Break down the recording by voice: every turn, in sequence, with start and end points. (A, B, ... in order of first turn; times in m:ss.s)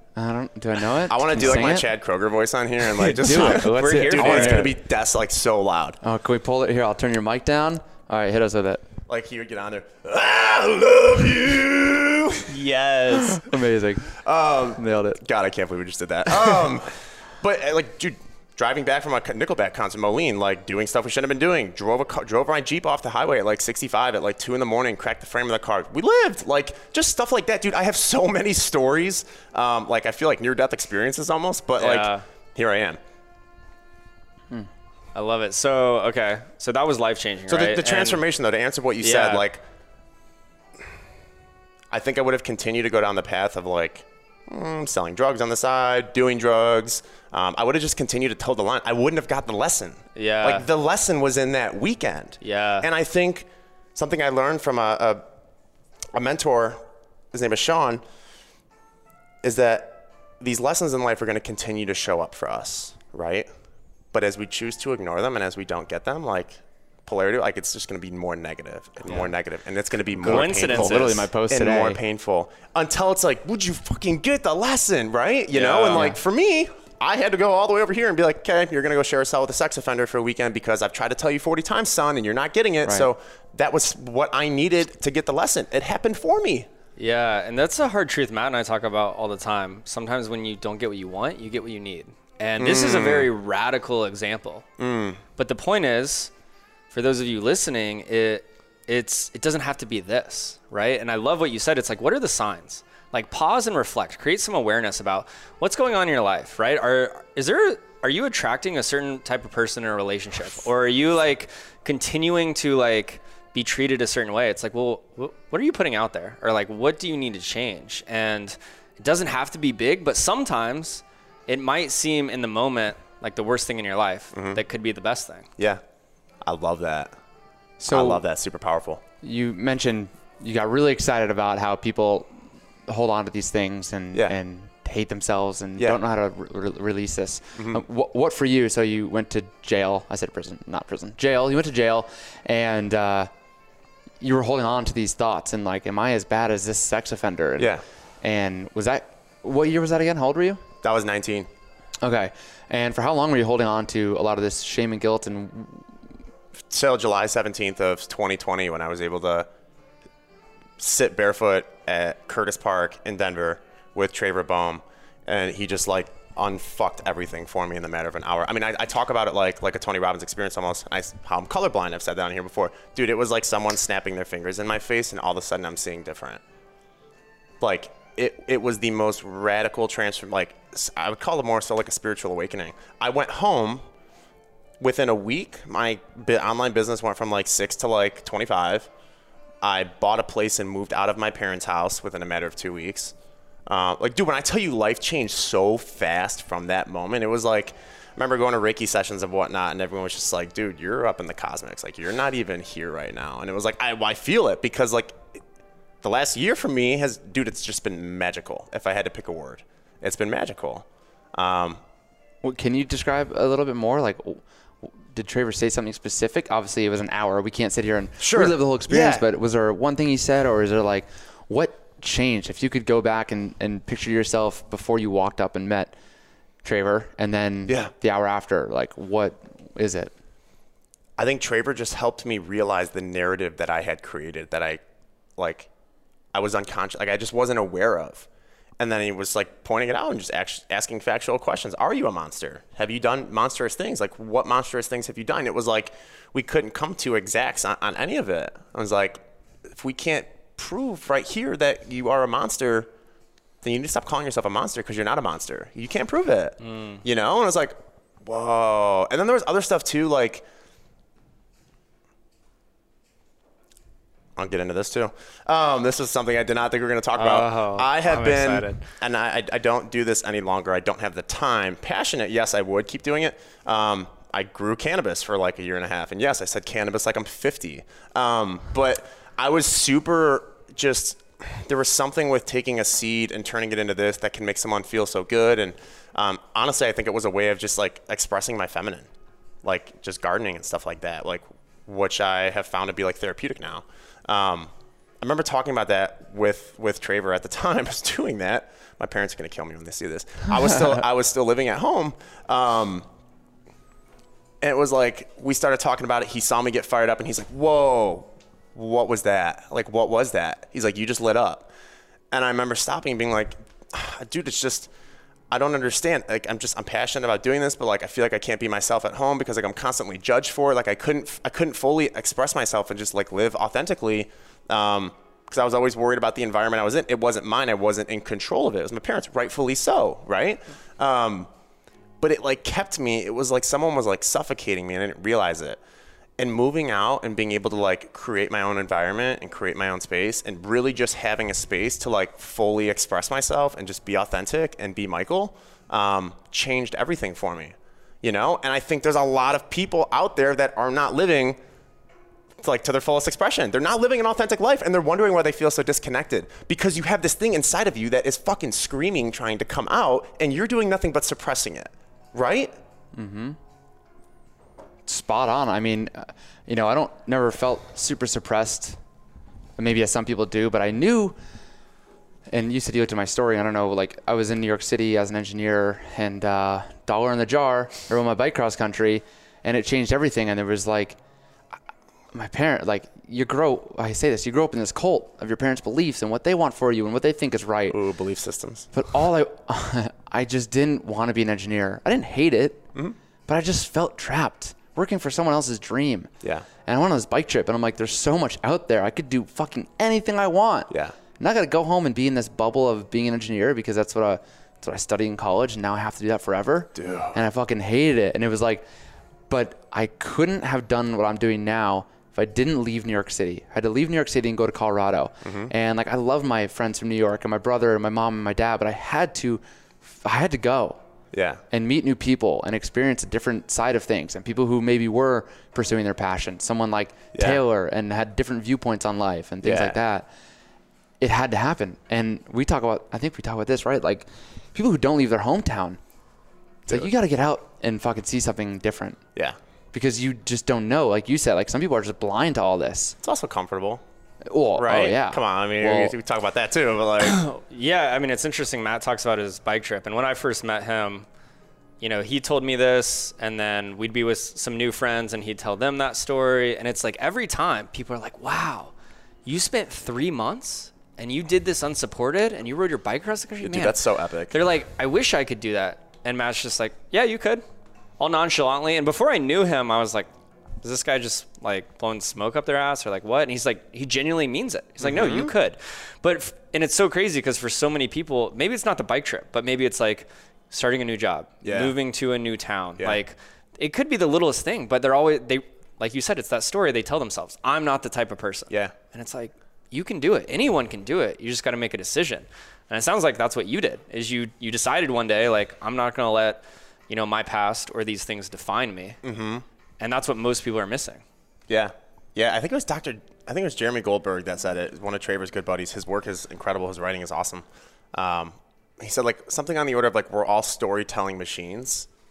0:00.2-0:01.8 A
0:01.1-0:06.0 B
0:03.0-0:04.7 C
0:03.2-0:04.7 A
0:06.0-0:08.8 A
0:09.1-0:13.5 B
0:13.2-0:14.1 A
0:14.2-0:33.0 B
0:14.8-0:15.2 A
0:31.8-0:32.2 C
0:35.1-0:38.2 C
0:37.5-0:39.6 B
0:39.0-0:39.5 C
0:41.9-0:55.2 B
0:50.1-0:50.6 C
0:52.4-0:52.9 C
0:56.1-0:56.8 B
0:57.3-0:58.0 B
0:59.4-1:03.5 B
1:04.1-1:26.7 B
1:10.2-1:12.0 A
1:10.2-1:11.3 C
1:15.5-1:16.1 C
1:15.9-1:16.2 A
1:27.0-1:34.6 C
1:32.6-1:33.3 B
1:34.8-1:35.2 B
1:35.4-1:36.3 C
1:36.9-2:05.5 C
2:04.3-2:04.6 B
2:06.4-2:07.2 B
2:07.8-2:08.2 A
2:07.9-2:09.0 B
2:09.2-2:23.3 A
2:17.6-2:17.8 B
2:24.2-2:30.6 A
2:27.6-2:27.8 B
2:30.8-2:31.5 B
2:32.0-2:35.9 A
2:36.7-2:39.5 B
2:40.8-2:56.4 B
2:57.6-3:03.8 B
3:04.8-3:08.9 B
3:09.6-3:13.1 B
3:13.7-3:25.4 B
3:26.0-3:31.8 B
3:32.4-3:45.9 A
3:38.2-3:39.2 B
3:46.6-3:50.1 A
3:47.6-3:47.9 B
3:51.2-3:54.8 B
3:55.4-3:55.7 B
3:56.3-3:58.3 B
3:58.8-4:12.9 B
4:13.6-4:20.4 B
4:16.6-4:17.0 C
4:24.4-4:49.1 B
4:27.1-4:28.9 C
4:49.6-5:03.1 B
5:04.6-5:11.7 B
5:12.3-5:14.9 B
5:15.5-5:31.5 B
5:32.2-5:35.8 B
5:36.4-5:51.6 B
5:52.6-6:02.7 B
6:03.1-6:03.6 A
6:05.0-6:09.0 A
6:09.8-6:11.4 A
6:12.5-6:21.2 A
6:22.3-6:28.0 A
6:27.9-6:28.9 B
6:28.9-6:32.9 A
6:33.5-6:36.3 A
6:36.8-6:48.8 A
6:40.9-6:41.1 B
6:46.9-6:47.4 B
6:49.5-7:01.0 A
6:55.4-6:55.7 B
7:01.3-7:01.6 B
7:01.7-7:10.3 A
7:07.3-7:07.6 B
7:09.6-7:10.0 B
7:11.2-7:16.0 A
7:16.9-7:19.2 A
7:19.9-7:23.1 A
7:23.2-7:24.0 B
7:24.4-7:26.1 A
7:24.7-7:27.4 B
7:27.2-7:31.2 C
7:32.0-7:38.9 C
7:39.4-7:44.0 C
7:43.6-7:44.5 B
7:44.5-7:47.6 C
7:48.2-7:50.3 C
7:50.8-8:19.2 C
7:55.0-7:55.5 B
8:01.6-8:01.9 B
8:19.2-8:19.6 B
8:20.0-8:21.2 C
8:21.7-8:32.1 B